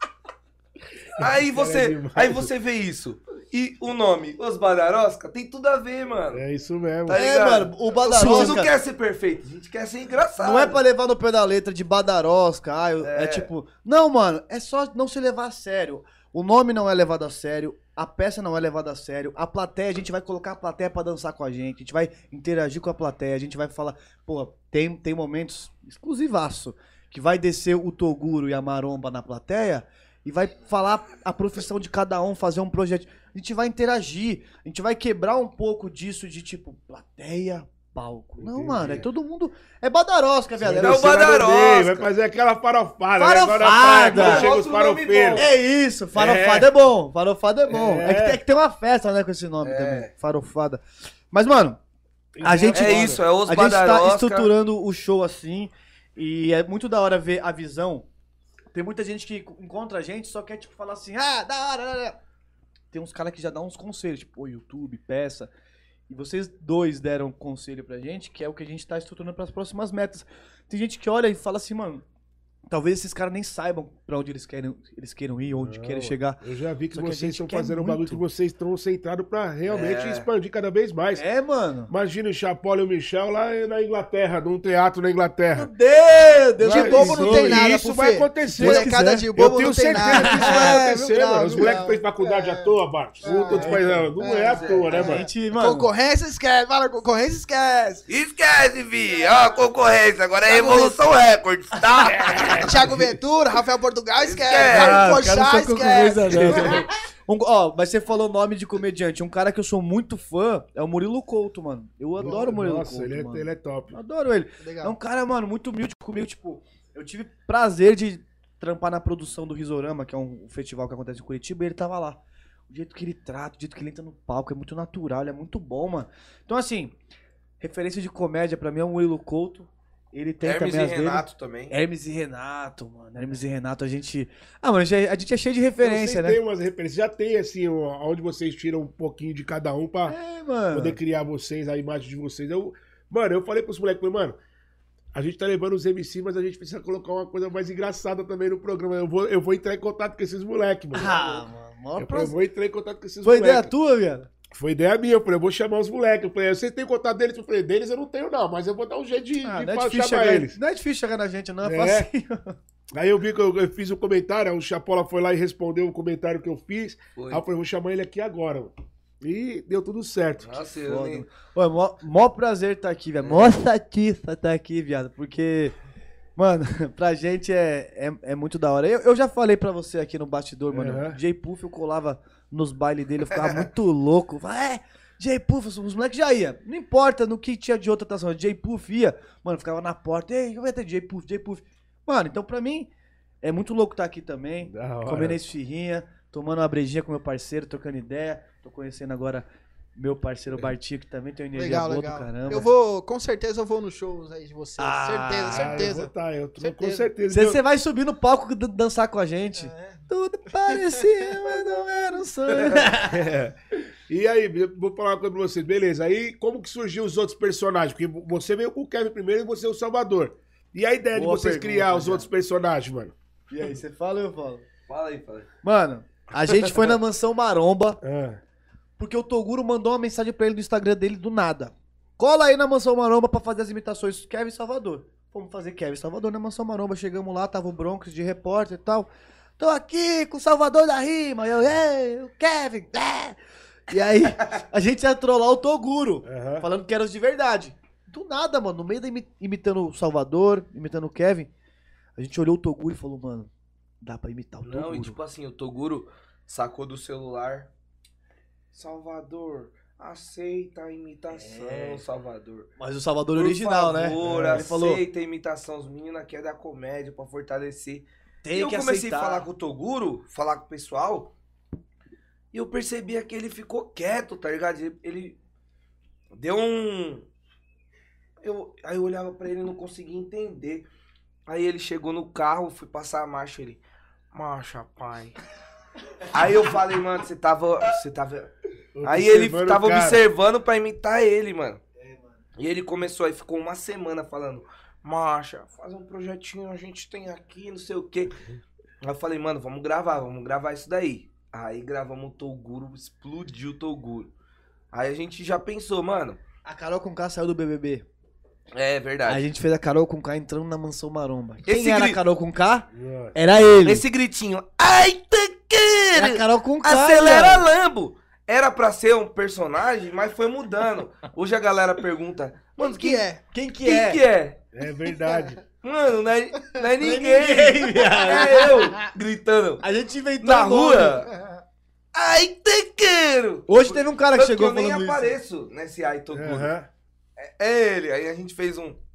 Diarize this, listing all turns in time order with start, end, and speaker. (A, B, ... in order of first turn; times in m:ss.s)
0:01.2-0:02.5 A
0:01.2-0:06.4 B
0:06.3-0:07.2 A
0:07.0-0:10.8 B
0:07.1-0:08.7 C
0:10.4-0:41.2 C
0:13.0-0:13.5 B
0:38.4-0:39.0 A
0:40.6-0:45.5 A
0:40.8-0:42.1 B
0:43.2-0:44.5 C
0:44.0-0:45.5 B
0:45.4-0:51.8 C
0:46.1-0:46.7 A
0:47.7-0:48.4 A
0:49.6-0:50.1 B
0:52.4-0:53.2 A
0:52.4-0:58.0 C
0:52.7-0:54.5 B
0:58.7-1:02.2 C
1:02.9-1:05.5 C
1:06.1-1:12.0 C
1:12.7-1:16.4 C
1:15.6-1:21.2 A
1:16.9-1:18.2 C
1:19.7-1:20.3 B
1:21.1-1:21.9 C
1:21.9-1:25.7 A
1:25.5-1:27.6 C
1:26.6-1:35.3 A
1:26.6-1:38.0 D
1:28.5-1:29.3 C
1:30.0-1:31.8 C
1:33.5-1:34.1 C
1:34.4-1:35.0 B
1:34.9-1:35.9 C
1:38.1-1:42.7 B
1:40.4-1:41.0 D
1:42.0-1:43.1 A
1:42.6-1:46.9 D
1:44.2-1:45.1 B
1:44.7-1:46.8 A
1:44.8-2:06.9 C
1:52.2-1:54.0 A
1:54.6-1:55.0 D
2:07.6-2:16.4 C
2:10.4-2:11.8 B
2:15.8-2:20.2 A
2:20.1-2:21.0 C
2:20.7-2:24.4 A
2:25.1-2:31.4 A
2:30.9-2:32.4 C
2:32.0-2:33.7 A
2:33.2-2:34.3 C
2:34.5-2:40.6 A
2:39.4-2:42.6 C
2:41.6-2:42.1 A
2:42.9-2:50.6 A
2:47.2-2:47.4 B
2:50.4-2:51.3 B
2:50.9-2:55.7 C
2:53.2-2:53.4 B
2:56.4-3:12.9 C
3:00.7-3:01.2 A
3:13.4-3:22.7 C
3:14.7-3:15.4 A
3:21.5-3:26.1 D
3:24.8-3:25.9 C
3:25.4-3:27.6 A
3:26.6-3:27.1 D
3:27.3-3:33.2 C
3:29.6-3:30.1 D
3:30.6-3:31.5 D
3:33.0-3:33.5 A
3:34.1-3:43.1 A
3:41.1-3:42.3 C
3:43.5-3:44.6 C
3:44.9-3:45.5 B
3:45.6-3:48.0 C
3:48.0-3:48.4 A
3:49.0-4:11.5 C
4:06.2-4:06.6 A
4:12.2-4:13.5 C
4:14.0-4:15.2 C
4:14.6-4:17.7 B
4:18.7-4:22.7 B
4:21.3-4:22.0 C
4:22.8-4:25.0 C
4:23.3-4:31.3 B
4:24.2-4:24.7 A
4:28.4-4:29.5 C
4:32.5-4:35.4 B
4:36.3-4:37.3 B
4:38.4-4:40.9 B
4:41.5-4:45.4 B
4:46.3-4:48.5 B
4:48.9-4:50.2 A
4:49.0-4:51.8 B
4:52.0-4:52.4 C
4:52.6-4:58.3 B
4:59.0-5:04.3 B
5:04.9-5:06.4 B
5:06.6-5:08.0 C
5:08.7-5:09.5 B
5:09.2-5:14.0 C
5:11.6-5:12.2 B
5:12.9-5:13.4 A
5:13.8-5:23.2 B
5:16.1-5:17.7 C
5:22.8-5:23.4 D
5:23.5-5:24.2 C
5:23.8-5:24.6 B
5:24.7-5:25.6 A
5:24.8-5:25.5 D
5:25.8-5:29.8 B
5:27.0-5:28.9 C
5:29.8-5:31.2 C
5:30.4-5:31.3 B
5:32.1-5:36.7 B
5:33.7-5:35.4 C
5:36.3-5:36.9 A
5:37.4-5:39.0 B